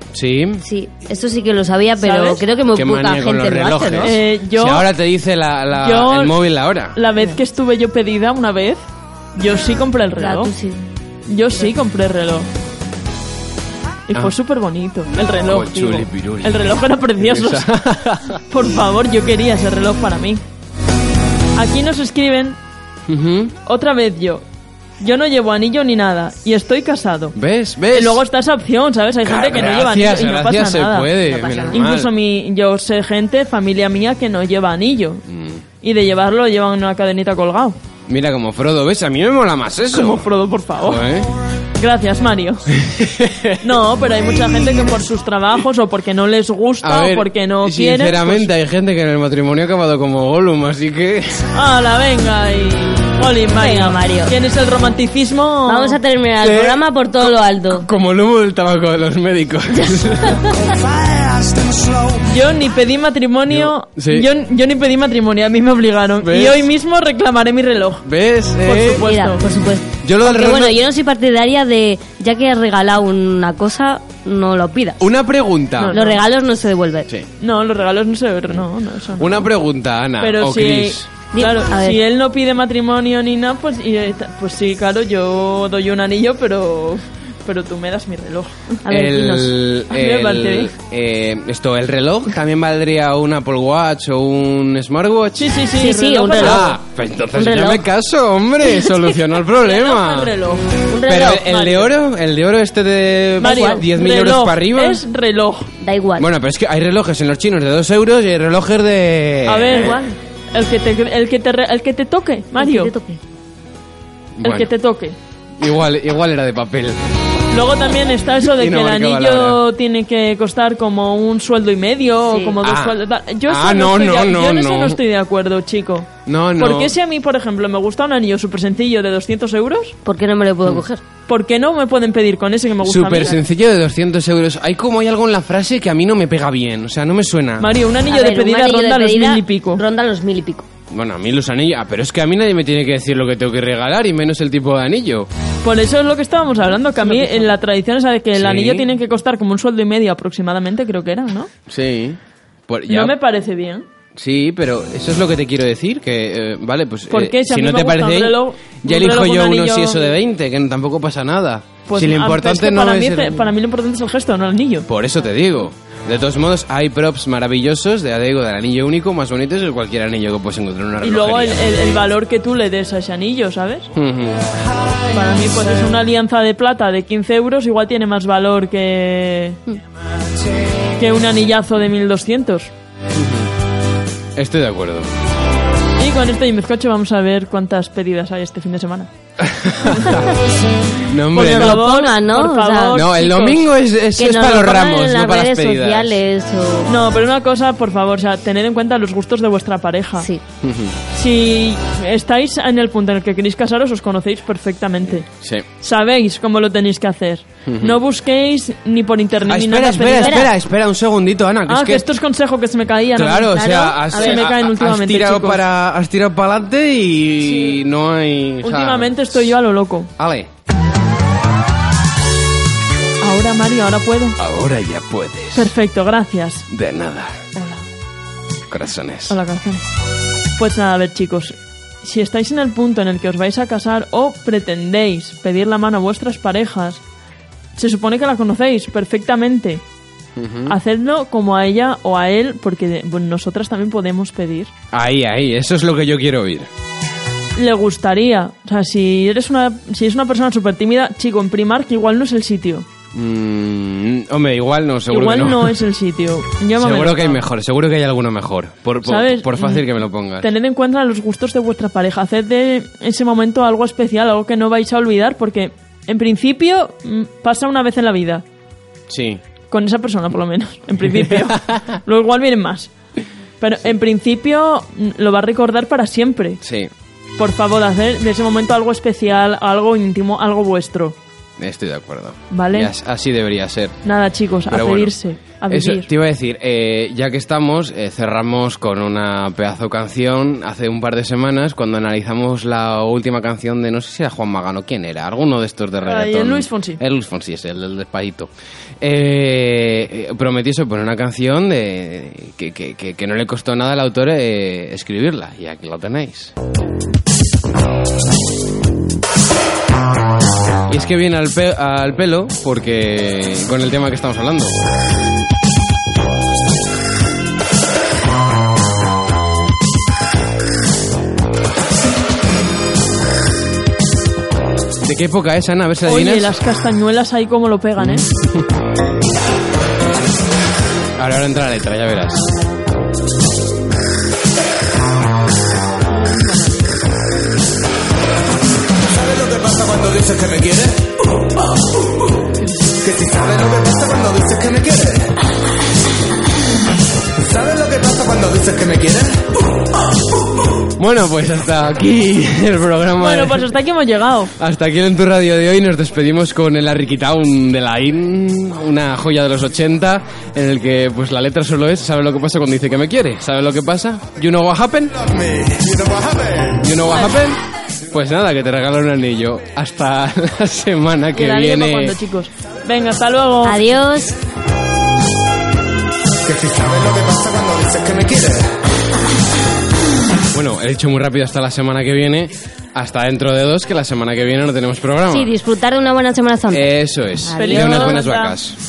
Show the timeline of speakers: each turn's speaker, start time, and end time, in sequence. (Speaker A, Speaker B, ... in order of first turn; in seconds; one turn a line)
Speaker A: 0.1-0.6
Speaker B: 0.6-4.1
Speaker C: 2.0-2.4
Speaker A: 2.7-7.0
Speaker C: 4.0-4.9
Speaker C: 5.7-6.4
Speaker C: 6.9-8.8
Speaker C: 9.3-10.5
Speaker B: 10.2-10.8
Speaker C: 11.3-12.5
Speaker C: 14.1-17.7
Speaker A: 15.4-18.4
Speaker C: 18.5-20.4
Speaker C: 21.5-22.6
Speaker A: 23.1-23.5
Speaker C: 23.6-24.4
Speaker C: 25.0-27.4
Speaker A: 27.4-28.2
Speaker C: 27.9-31.1
Speaker A: 29.2-32.1
Speaker B: 31.2-31.8
Speaker C: 31.7-35.2
Speaker A: 35.3-35.6
Speaker C: 35.8-37.8
Speaker A: 38.1-40.2
Speaker C: 39.9-41.1
Speaker A: 40.8-41.3
Speaker C: 41.8-42.8
Speaker A: 42.7-43.7
Speaker C: 43.6-48.5
Speaker A: 46.8-51.5
Speaker C: 51.5-56.0
Speaker B: 53.5-54.3
Speaker B: 55.6-57.9
Speaker A: 56.4-60.5
Speaker B: 59.8-60.8
Speaker A: 61.4-61.8
Speaker C: 62.2-68.1
Speaker A: 63.5-64.3
Speaker A: 66.2-66.6
Speaker A: 68.0-69.0
Speaker C: 68.6-69.4
Speaker B: 68.8-75.0
Speaker A: 70.0-70.8
Speaker A: 75.0-76.0
Speaker C: 75.8-76.2
Speaker B: 75.9-77.1
Speaker C: 77.4-79.5
Speaker A: 79.1-81.1
Speaker C: 80.2-88.8
Speaker B: 81.3-82.0
Speaker B: 88.9-89.5
Speaker A: 88.9-95.6
Speaker C: 89.9-90.7
Speaker C: 95.4-96.8
Speaker B: 95.8-96.8
Speaker A: 96.4-100.3
Speaker B: 97.3-97.8
Speaker C: 99.6-100.7
Speaker B: 100.9-101.9
Speaker A: 101.0-105.0
Speaker C: 103.4-105.7
Speaker B: 103.4-103.8
Speaker B: 105.8-106.3
Speaker A: 106.2-110.0
Speaker C: 109.4-112.9
Speaker B: 112.5-113.2
Speaker A: 114.4-114.7
Speaker C: 114.4-115.2
Speaker A: 115.6-117.0
Speaker C: 117.5-129.9
Speaker A: 118.4-119.6
Speaker B: 122.3-122.6
Speaker A: 122.6-125.0
Speaker A: 126.2-126.9
Speaker B: 130.0-131.0
Speaker C: 131.3-133.4
Speaker A: 132.8-137.7
Speaker C: 137.6-139.8
Speaker B: 138.1-140.7
Speaker A: 140.9-145.3
Speaker C: 145.6-151.5
Speaker B: 147.0-147.5
Speaker A: 148.3-148.9
Speaker A: 151.7-153.2
Speaker C: 152.9-153.8
Speaker A: 154.2-163.5
Speaker C: 157.1-160.1
Speaker C: 161.9-164.9
Speaker A: 164.9-171.8
Speaker C: 171.0-173.9
Speaker A: 173.9-174.5
Speaker C: 175.1-179.6
Speaker C: 181.0-182.7
Speaker A: 183.1-183.5
Speaker A: 184.4-185.1
Speaker C: 186.0-189.1
Speaker A: 189.4-190.3
Speaker C: 189.9-190.3
Speaker A: 191.0-191.8
Speaker C: 191.3-193.7
Speaker B: 191.3-193.1
Speaker A: 192.9-196.2
Speaker B: 194.2-196.9
Speaker C: 196.9-200.3
Speaker A: 200.6-201.0
Speaker C: 201.1-205.3
Speaker A: 205.4-205.7
Speaker C: 205.8-210.5
Speaker A: 207.7-208.0
Speaker A: 209.5-212.1
Speaker B: 210.2-210.5
Speaker C: 211.7-215.6
Speaker A: 213.1-219.6
Speaker B: 214.1-214.4
Speaker C: 217.4-217.8
Speaker C: 218.6-220.1
Speaker A: 220.2-220.5
Speaker C: 223.2-224.4
Speaker A: 224.4-225.7
Speaker C: 225.5-226.7
Speaker A: 226.7-227.4
Speaker C: 227.5-227.8
Speaker A: 228.7-229.4
Speaker C: 229.3-229.9
Speaker C: 230.6-237.0
Speaker C: 237.8-239.8
Speaker A: 240.4-240.8
Speaker C: 240.7-244.7
Speaker A: 244.9-246.7
Speaker C: 247.6-252.9
Speaker A: 253.1-255.8
Speaker C: 255.1-257.4
Speaker A: 256.8-260.5
Speaker C: 259.0-259.8
Speaker C: 260.4-268.4
Speaker A: 269.1-269.4
Speaker C: 269.7-272.9
Speaker A: 271.1-271.8
Speaker C: 273.6-276.6
Speaker A: 276.6-276.9
Speaker C: 277.4-281.1
Speaker A: 281.6-284.0
Speaker C: 282.5-282.9
Speaker C: 284.0-286.1
Speaker A: 284.7-285.1
Speaker A: 285.7-298.5
Speaker C: 296.0-297.0
Speaker A: 299.0-306.5
Speaker A: 310.9-314.7
Speaker A: 325.0-326.5
Speaker C: 326.0-328.2
Speaker A: 328.0-328.7
Speaker A: 331.2-332.4
Speaker D: 339.1-341.5
Speaker D: 342.9-345.3
Speaker D: 347.4-349.4
Speaker A: 351.0-353.7
Speaker C: 353.2-354.5
Speaker A: 354.6-365.2
Speaker D: 365.2-366.8
Speaker A: 366.8-372.1
Speaker C: 367.1-367.4
Speaker C: 371.3-373.8
Speaker B: 373.6-374.4
Speaker D: 376.4-378.8
Speaker A: 380.5-385.5
Speaker B: 385.3-386.9
Speaker A: 386.7-388.8
Speaker B: 387.5-388.2
Speaker C: 387.6-388.6